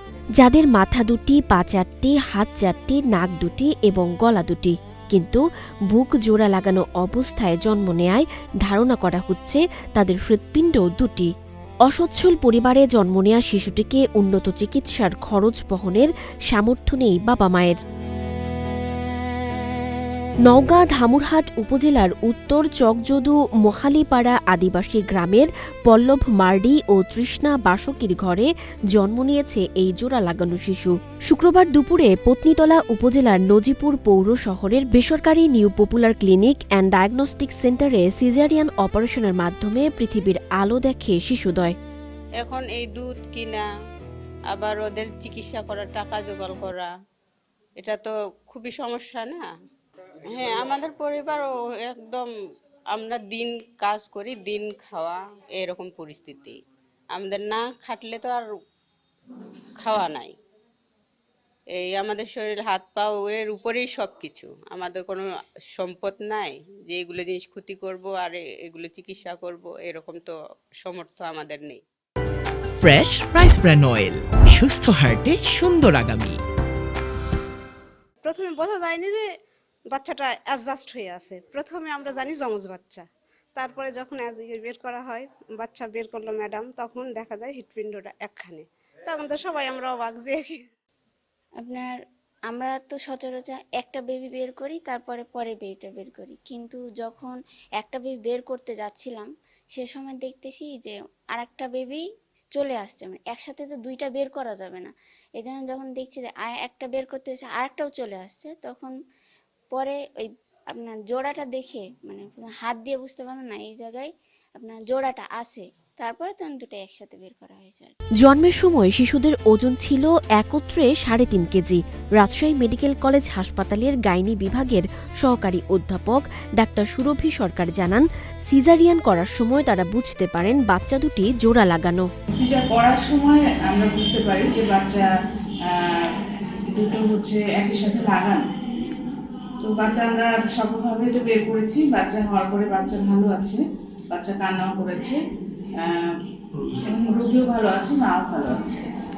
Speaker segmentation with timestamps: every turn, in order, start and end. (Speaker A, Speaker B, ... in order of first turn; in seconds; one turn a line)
Speaker A: 0.4-5.4
Speaker A: 5.9-11.3
Speaker A: 11.9-17.8
Speaker A: 20.5-41.8
Speaker B: 42.4-43.7
Speaker B: 44.5-46.9
Speaker B: 47.8-49.5
Speaker B: 50.3-52.3
Speaker B: 52.9-56.5
Speaker B: 57.1-58.5
Speaker B: 59.8-60.3
Speaker B: 61.8-71.8
Speaker C: 72.7-76.4
Speaker D: 78.2-79.2
Speaker D: 79.9-83.0
Speaker D: 83.6-90.6
Speaker E: 91.6-92.0
Speaker E: 92.5-102.0
Speaker E: 102.5-108.9
Speaker E: 109.7-117.9
Speaker A: 118.2-132.1
Speaker F: 132.3-135.1
Speaker F: 135.7-138.4
Speaker F: 139.6-145.2
Speaker F: 145.8-146.2
Speaker F: 146.8-148.9